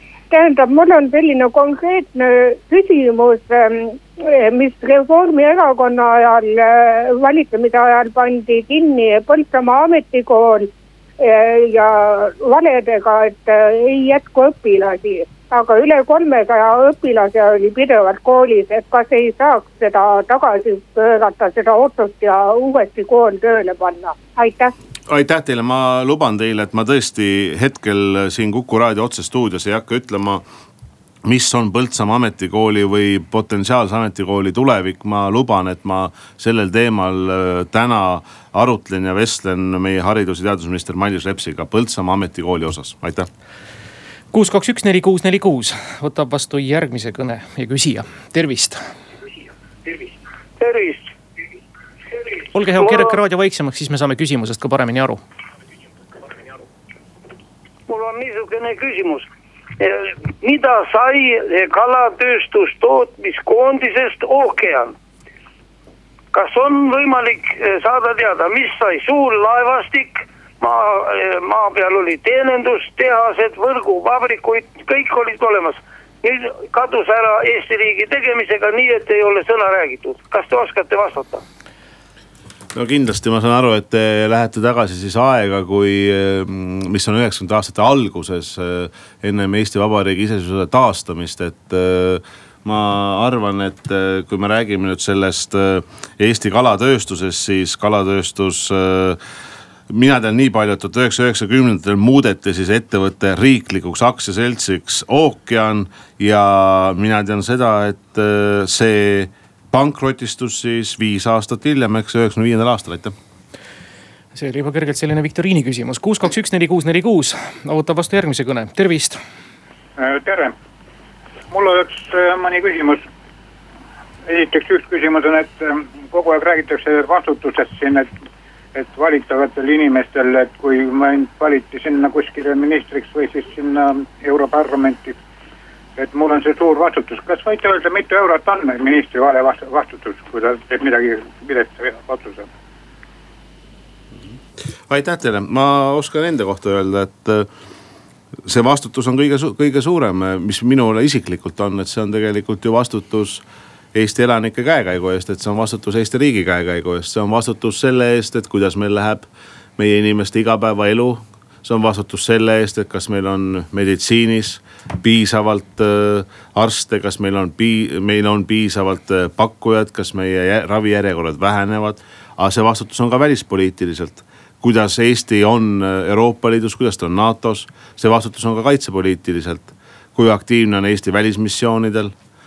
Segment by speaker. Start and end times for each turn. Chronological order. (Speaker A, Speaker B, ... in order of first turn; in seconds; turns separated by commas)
Speaker A: 0.3-24.7, Speaker B: 25.1-30.4, Speaker B: 31.2-43.3, Speaker C: 44.3-48.8, Speaker D: 50.6-51.1, Speaker C: 52.5-55.2, Speaker D: 52.8-53.0, Speaker D: 57.9-59.3, Speaker D: 59.8-65.0, Speaker D: 66.3-81.4, Speaker B: 82.8-99.2, Speaker B: 99.9-113.1, Speaker C: 114.3-119.2, Speaker E: 120.0-120.5, Speaker E: 121.5-123.1, Speaker E: 124.3-128.1, Speaker E: 128.8-135.2, Speaker E: 136.0-142.5, Speaker B: 144.9-147.5, Speaker B: 148.4-153.4, Speaker B: 153.9-182.1